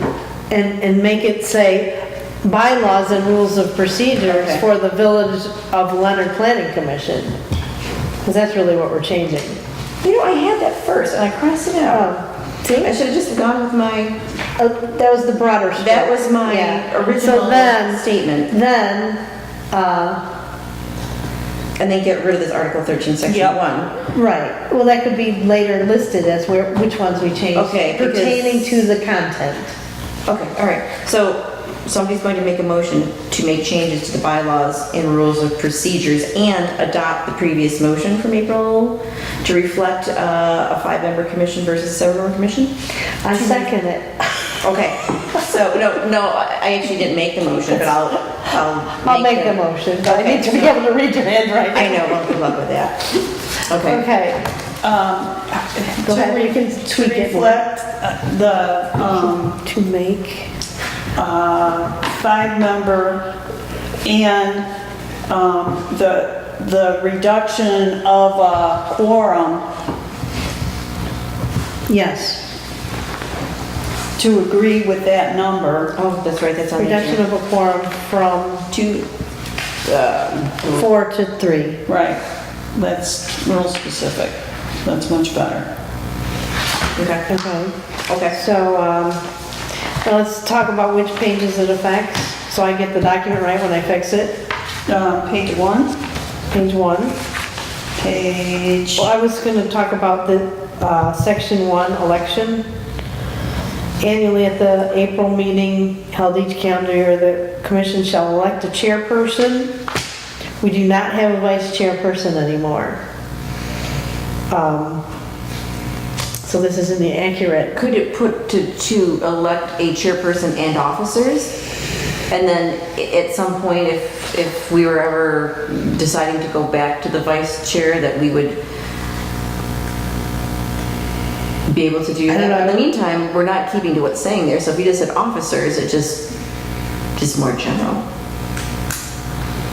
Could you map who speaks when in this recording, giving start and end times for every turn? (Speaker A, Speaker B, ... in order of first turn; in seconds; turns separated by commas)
Speaker A: 0.5-7.4, Speaker B: 4.3-4.6, Speaker A: 8.2-9.6, Speaker B: 10.0-12.1, Speaker A: 11.9-12.9, Speaker B: 12.7-14.2, Speaker A: 14.6-19.2, Speaker B: 15.8-18.5, Speaker A: 19.7-20.2, Speaker B: 21.8-23.9, Speaker C: 23.3-23.6, Speaker A: 24.1-29.8, Speaker B: 27.6-28.8, Speaker B: 30.3-42.7, Speaker A: 43.2-44.5, Speaker B: 43.3-43.7, Speaker B: 44.6-50.8, Speaker A: 49.0-52.4, Speaker B: 51.7-53.1, Speaker B: 53.7-54.0, Speaker A: 53.8-54.5, Speaker C: 54.8-59.6, Speaker A: 56.0-57.6, Speaker A: 59.2-60.5, Speaker C: 61.2-63.2, Speaker C: 64.0-64.7, Speaker C: 65.3-69.7, Speaker A: 71.9-72.4, Speaker C: 74.2-75.9, Speaker B: 76.0-77.2, Speaker A: 76.8-78.7, Speaker B: 78.7-79.1, Speaker B: 79.8-80.8, Speaker A: 80.7-81.8, Speaker C: 81.9-82.2, Speaker C: 82.7-85.7, Speaker B: 87.0-87.3, Speaker A: 87.3-87.7, Speaker B: 88.1-88.4, Speaker A: 88.3-89.2, Speaker A: 90.0-94.4, Speaker C: 94.9-96.0, Speaker A: 96.5-97.2, Speaker C: 98.0-99.1, Speaker A: 99.0-102.6, Speaker A: 104.0-109.7, Speaker A: 110.6-113.0, Speaker A: 114.5-115.0, Speaker A: 116.4-117.7, Speaker B: 117.7-121.5, Speaker B: 122.3-128.6, Speaker B: 131.7-136.3, Speaker A: 132.3-132.9, Speaker B: 137.2-138.0